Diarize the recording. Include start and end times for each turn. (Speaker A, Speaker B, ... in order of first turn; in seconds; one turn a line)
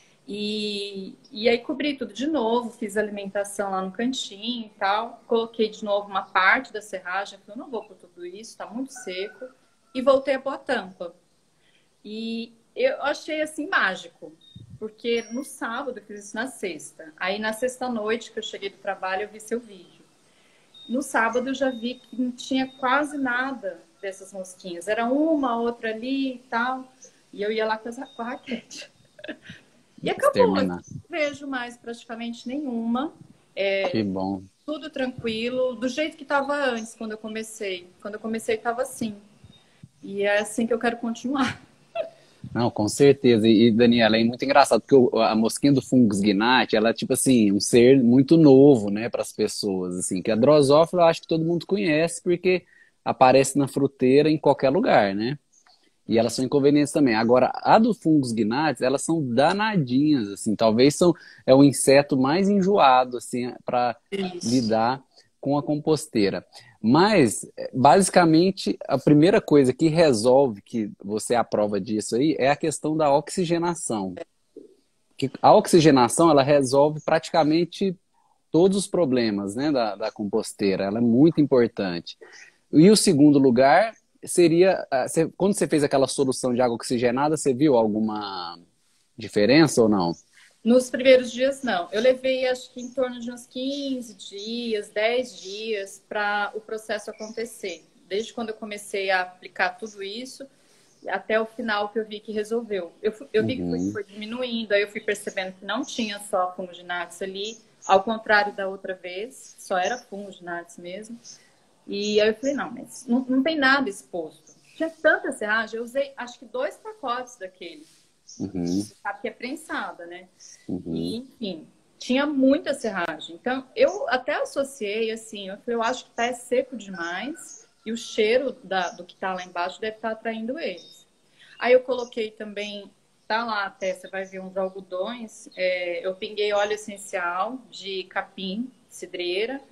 Speaker A: 0.3-11.2
Speaker A: 12.0-20.1
Speaker A: 20.9-28.9
Speaker A: 30.0-34.0
Speaker B: 30.1-30.8
Speaker B: 33.9-34.5
Speaker A: 34.7-39.2
Speaker A: 40.0-41.5
Speaker B: 42.5-55.4
Speaker B: 56.1-74.2
Speaker A: 64.2-64.4
Speaker B: 75.2-78.0
Speaker B: 78.5-82.2
Speaker B: 82.7-88.6
Speaker B: 89.2-90.2
Speaker A: 90.6-100.5
Speaker A: 101.0-111.2
Speaker B: 103.4-104.0
Speaker A: 111.9-117.9
Speaker B: 118.4-118.9
Speaker A: 118.9-120.3
Speaker B: 120.7-121.2
Speaker A: 120.9-131.1
Speaker A: 131.6-139.6